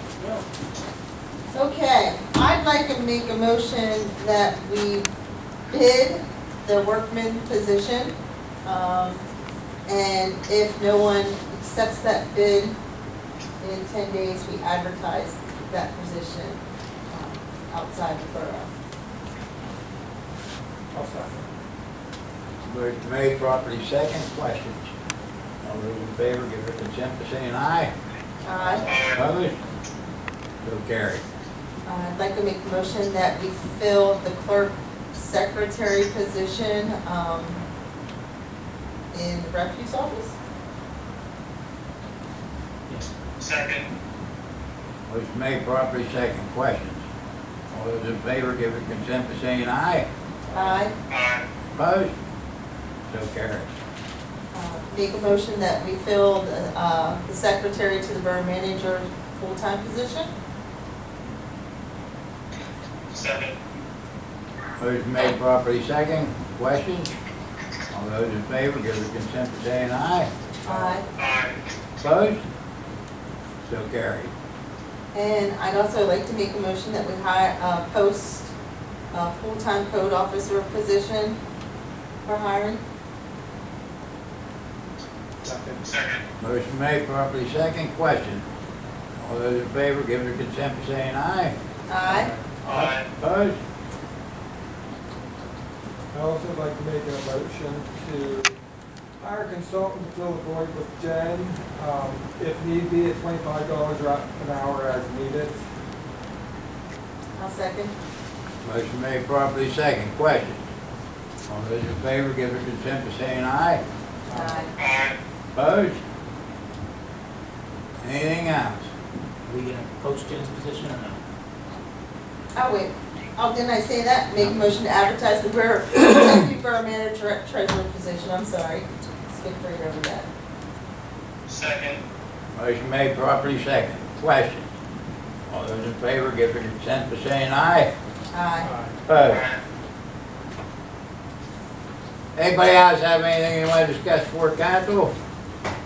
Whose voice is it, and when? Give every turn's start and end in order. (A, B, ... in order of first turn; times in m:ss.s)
0:00.2-0:00.4 A
0:01.5-0:05.1 B
0:05.7-0:09.2 B
0:09.9-0:12.7 B
0:13.6-0:18.7 B
0:20.9-0:21.5 C
0:22.6-0:24.9 D
0:25.6-0:27.9 D
0:28.4-0:28.9 B
0:28.8-0:29.2 E
0:29.1-0:29.6 D
0:30.6-0:31.2 D
0:31.8-0:37.6 B
0:39.1-0:40.3 B
0:43.4-0:43.9 E
0:45.1-0:47.0 D
0:47.7-0:50.0 D
0:50.5-0:50.9 B
0:51.1-0:51.4 E
0:51.7-0:52.1 D
0:53.1-0:53.7 D
0:54.5-1:00.3 B
1:03.1-1:03.5 E
1:04.8-1:07.1 D
1:07.9-1:10.3 D
1:10.6-1:11.0 B
1:11.1-1:11.6 E
1:12.0-1:12.4 D
1:13.6-1:14.3 D
1:15.1-1:18.5 B
1:19.1-1:21.4 B
1:22.2-1:22.8 B
1:25.4-1:25.8 C
1:25.8-1:26.2 E
1:26.4-1:28.4 D
1:29.2-1:31.5 D
1:31.9-1:32.3 B
1:32.1-1:32.4 C
1:32.6-1:33.0 E
1:32.7-1:33.6 D
1:36.1-1:38.5 C
1:39.2-1:45.6 C
1:47.4-1:47.9 B
1:48.6-1:50.6 D
1:51.5-1:53.8 D
1:54.3-1:54.7 B
1:54.3-1:54.6 C
1:54.8-1:55.2 E
1:55.5-1:56.0 D
1:58.0-1:58.9 D
1:59.5-2:01.2 A
2:02.5-2:10.3 B
2:11.5-2:12.0 E
2:12.5-2:14.7 D
2:15.5-2:17.9 D
2:18.3-2:18.7 B
2:18.6-2:18.9 C
2:19.1-2:19.4 D
2:19.2-2:19.6 E
2:22.4-2:25.1 D